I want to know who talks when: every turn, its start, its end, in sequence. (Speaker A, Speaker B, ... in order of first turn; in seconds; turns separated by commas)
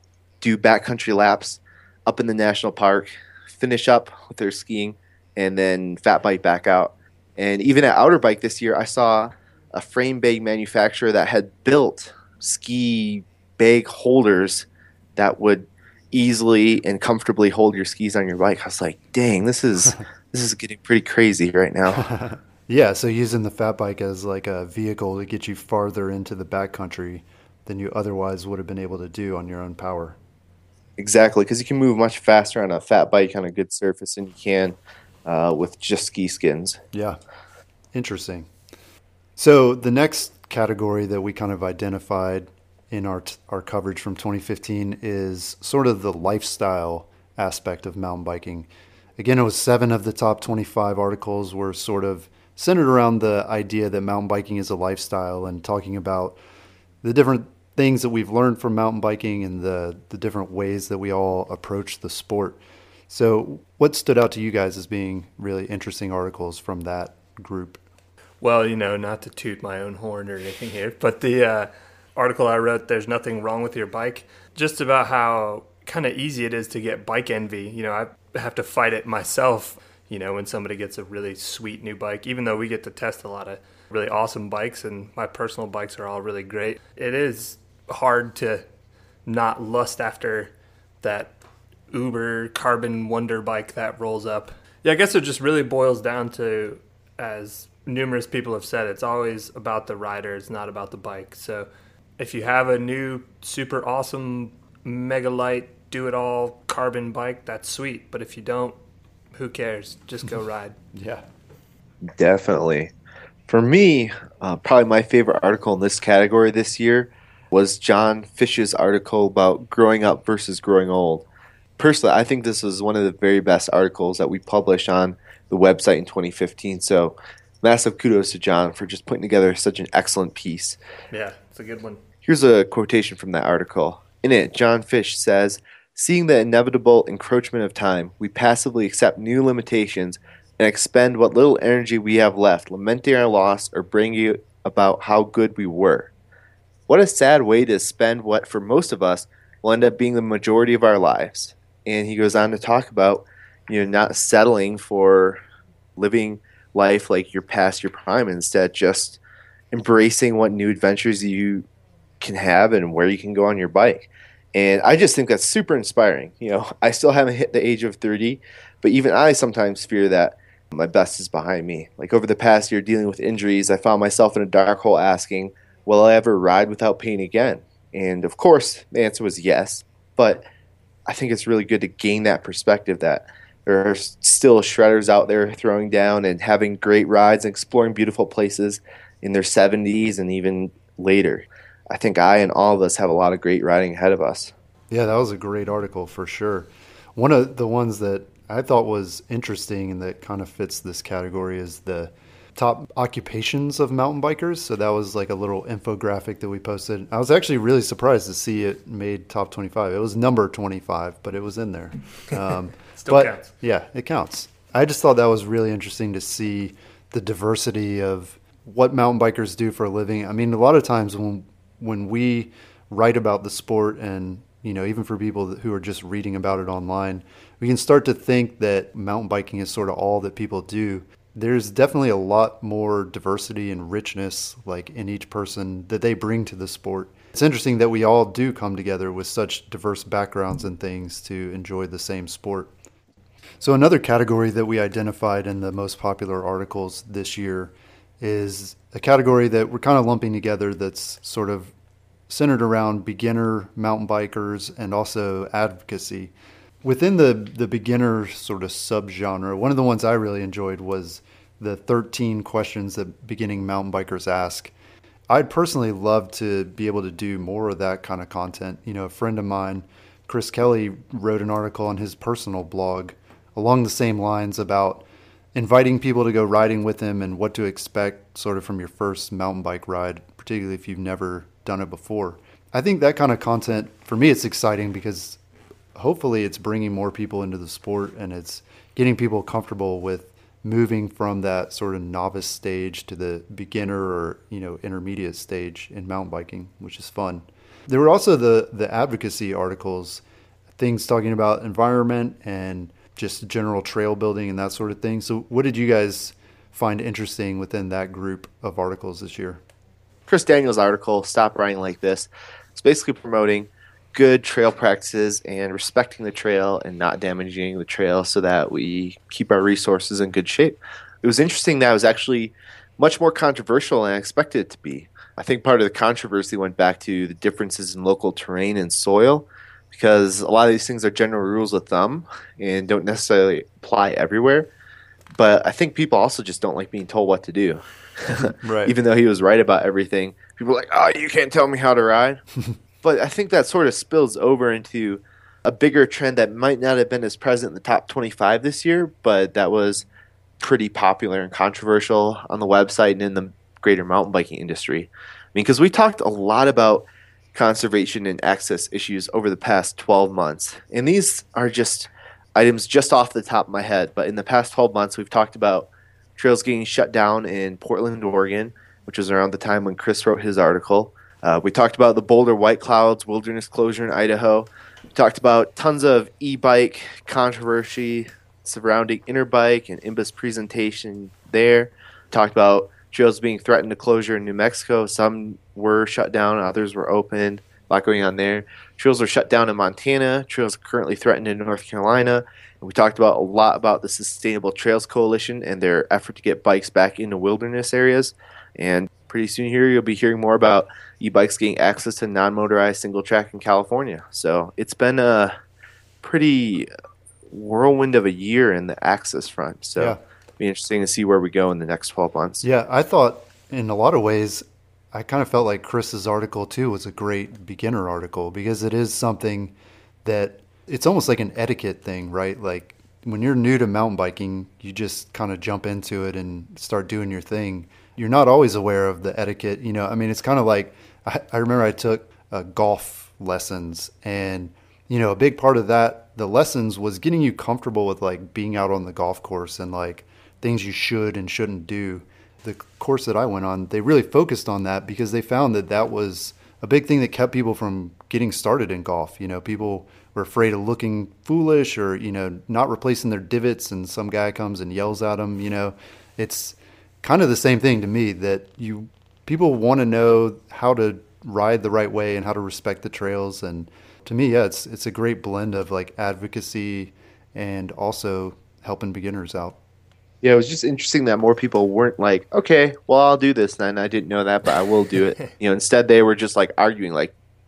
Speaker A: 0.4-22.0, Speaker B: 21.9-30.2, Speaker A: 31.0-36.8, Speaker B: 36.9-37.2, Speaker B: 37.9-38.5, Speaker B: 39.4-56.4, Speaker B: 57.0-67.8, Speaker C: 68.4-88.6, Speaker C: 89.2-91.3, Speaker C: 91.9-108.8, Speaker C: 109.3-110.8, Speaker B: 110.9-111.2, Speaker A: 112.0-112.9, Speaker A: 113.5-121.2, Speaker A: 121.8-130.8, Speaker C: 131.1-132.0, Speaker A: 132.2-146.1, Speaker A: 146.9-155.4, Speaker A: 156.0-159.2, Speaker A: 159.7-161.6, Speaker A: 162.2-180.4, Speaker A: 181.1-194.5, Speaker B: 194.9-242.7, Speaker C: 213.0-213.5, Speaker B: 243.6-251.7, Speaker B: 252.3-264.7, Speaker B: 265.3-285.4, Speaker B: 285.9-300.2, Speaker B: 300.8-309.6, Speaker A: 310.3-334.7, Speaker A: 335.3-342.4, Speaker B: 338.4-338.9, Speaker A: 343.0-350.1, Speaker A: 350.6-405.6, Speaker A: 406.2-406.9, Speaker A: 407.5-412.6, Speaker B: 412.6-469.8, Speaker A: 470.4-477.3